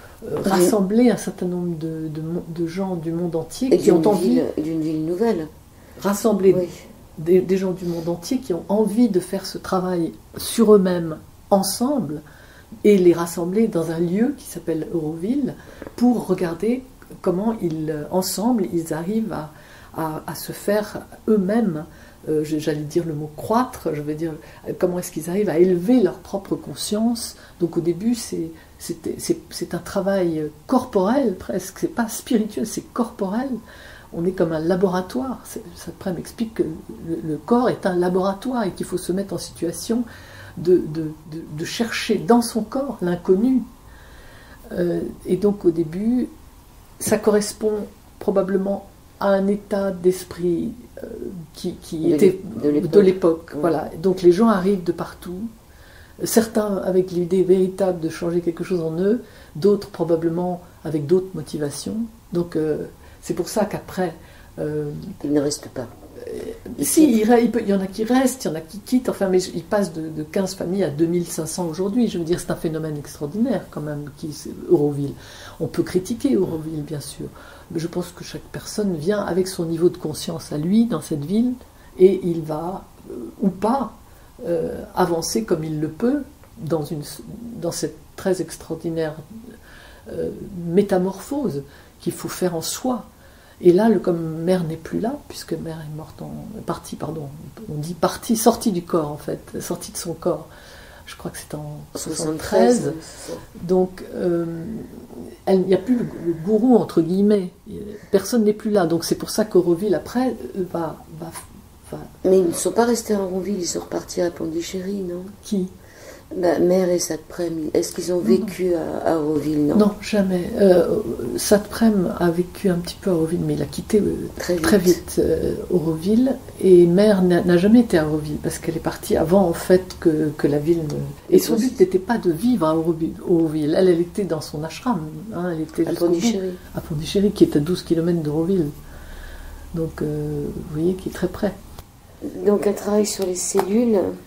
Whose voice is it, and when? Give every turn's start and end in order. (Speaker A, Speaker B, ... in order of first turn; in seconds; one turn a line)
Speaker A: 0.2-4.4
Speaker B: 0.4-0.7
Speaker B: 3.7-5.5
Speaker A: 6.0-12.2
Speaker B: 6.5-6.8
Speaker A: 12.8-33.6
Speaker A: 34.1-40.0
Speaker A: 40.6-43.7
Speaker A: 44.7-46.3
Speaker A: 47.0-55.5
Speaker B: 52.0-53.7
Speaker A: 56.2-65.1
Speaker B: 65.2-65.9
Speaker A: 66.2-89.2
Speaker B: 66.8-67.1
Speaker A: 90.1-93.1
Speaker A: 93.6-100.5
Speaker A: 101.0-103.0
Speaker B: 101.9-103.4
Speaker A: 103.5-112.1
Speaker B: 112.2-115.3
Speaker A: 115.4-115.7
Speaker B: 116.3-119.9
Speaker A: 118.2-118.5
Speaker A: 119.7-138.7
Speaker B: 124.4-125.0
Speaker B: 131.3-131.7
Speaker B: 135.8-136.6
Speaker A: 139.7-141.6
Speaker B: 142.2-144.2